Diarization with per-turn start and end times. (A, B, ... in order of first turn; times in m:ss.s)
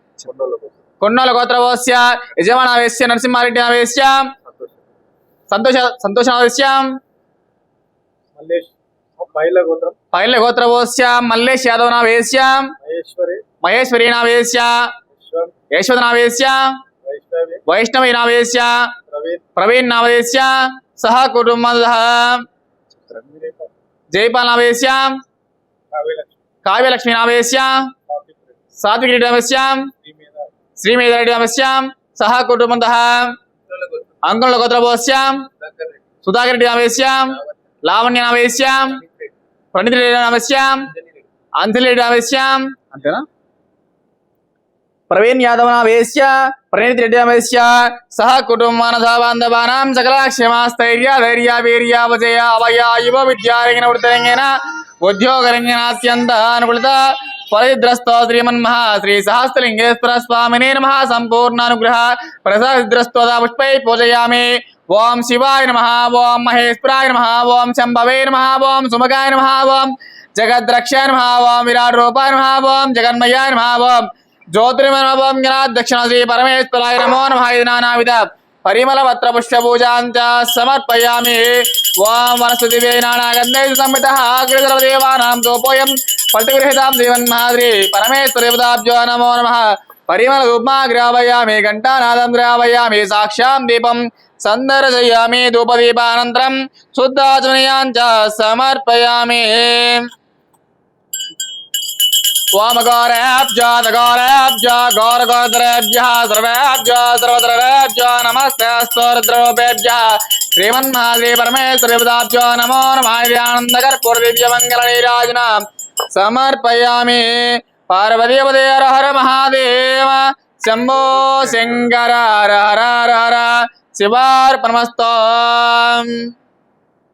0:00.2-0:00.7 A
0:01.0-0:04.4 B
0:05.5-0:07.0 B
0:08.4-0:10.0 A
0:10.1-0:12.7 B
0:12.8-0:13.4 A
0:13.6-0:14.9 B
0:15.2-0:15.5 A
0:15.7-0:16.8 B
0:17.0-0:17.6 A
0:17.6-0:19.0 B
0:19.1-0:19.4 A
0:19.6-0:22.4 B
0:23.1-0:23.7 A
0:24.1-0:25.2 B
0:25.9-0:26.3 A
0:26.6-0:27.9 B
0:28.1-0:28.4 A
0:28.8-0:29.9 B
0:30.0-0:30.5 A
0:30.8-0:33.4 B
0:33.9-0:35.6 B
0:36.2-0:39.0 B
0:39.7-0:40.9 B
0:41.6-0:43.2 B
0:45.1-1:40.1 B
1:42.5-2:06.3 B